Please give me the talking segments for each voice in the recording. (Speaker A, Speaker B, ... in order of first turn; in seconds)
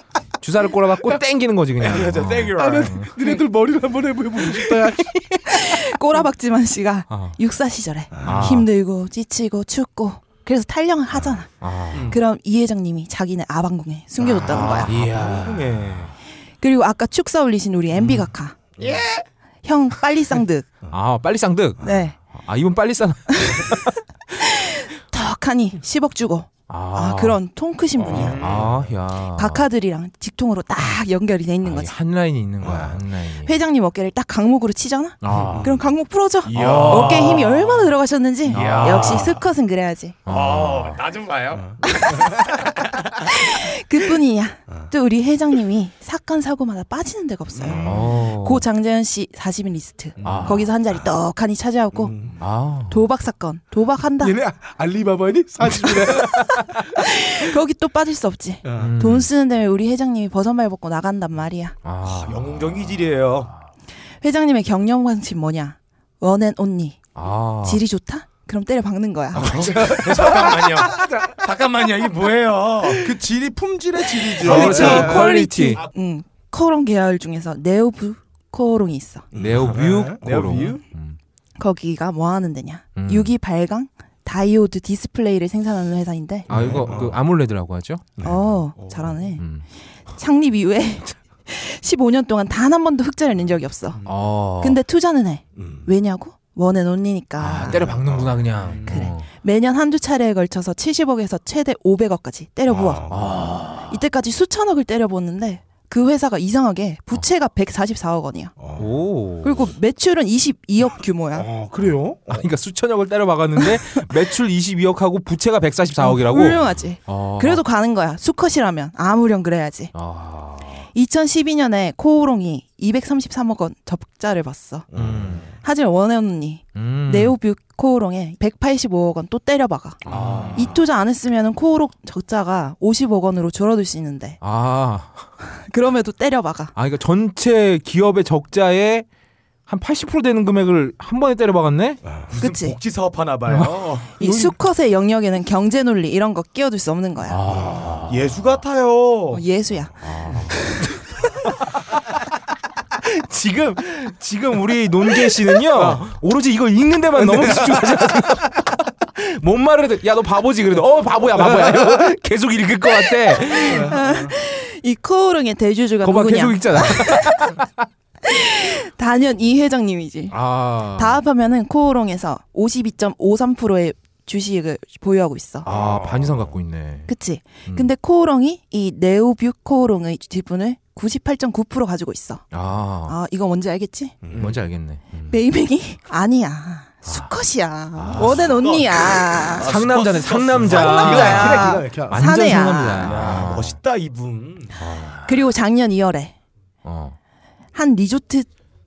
Speaker A: 0.4-3.1, 8.2-8.7, 11.6-12.1, 14.3-16.0, 17.9-18.3, 20.9-24.0, 26.7-27.4, 28.0-29.6, 31.6-33.5, 35.2-35.8, 36.5-37.5, 38.5-39.3, 40.2-41.0, 47.8-48.6, 50.2-50.7, 52.4-53.0, 58.7-59.3, 61.8-62.8, 67.1-67.8, 74.4-75.8, 79.3-81.2, 83.0-83.3, 86.5-88.2, 89.4-89.6, 94.0-94.8, 97.4-99.2, 103.1-104.0, 108.8-109.7, 112.3-117.6, 119.9-120.8, 124.9-125.5, 126.7-127.3, 130.1-130.8, 134.4-135.3, 136.8-139.1, 139.7-142.0, 144.2-144.5, 147.3-148.2, 150.0-150.8, 153.0-164.0, 166.0-167.8, 170.3-171.2, 175.6-177.1, 182.5-183.2, 184.4-185.4, 187.1-187.3, 187.9-188.5, 189.5-193.7, 194.8-195.4, 196.8-197.2
Speaker B: 1.8-3.0, 11.9-12.2, 14.5-16.1, 18.8-19.2, 28.1-28.8, 36.4-37.5, 38.5-39.5, 40.3-43.3, 62.1-63.5, 69.4-73.1, 80.1-80.8, 88.8-89.1, 93.9-94.2, 98.5-99.1, 130.1-130.5, 142.3-144.2, 148.1-149.4, 184.3-184.6, 188.1-191.6, 193.0-194.7
Speaker C: 2.5-5.1, 8.2-8.5, 32.6-32.9, 35.4-35.7, 52.0-52.3, 54.2-57.0, 58.6-58.9, 69.4-71.3, 73.0-75.3, 79.3-80.2, 86.5-87.2, 95.6-95.8, 97.7-98.3, 102.7-103.4, 108.6-108.9, 111.3-112.5, 124.9-125.5, 157.2-158.0, 163.6-164.3, 175.7-176.3, 191.0-192.3
Speaker D: 5.2-14.9, 16.6-18.6, 19.6-20.7, 21.8-22.2, 23.3-23.8, 24.3-28.4, 29.3-31.9, 33.4-40.2, 41.8-42.4, 43.1-52.4, 52.9-54.4, 55.7-56.3, 56.9-61.8, 64.2-67.0, 67.6-69.9, 74.3-79.3, 81.6-86.5, 88.2-89.4, 90.1-94.0, 94.6-97.9, 98.9-103.0, 103.8-108.5, 109.4-111.5, 116.0-119.9, 120.9-124.9, 125.6-130.0, 130.5-134.4, 135.6-136.7, 142.3-142.8, 144.2-147.4, 149.3-150.0, 163.3-167.6, 168.2-175.7, 177.1-182.5, 183.1-184.2, 185.3-189.7, 190.6-193.3, 195.2-196.3, 197.7-198.5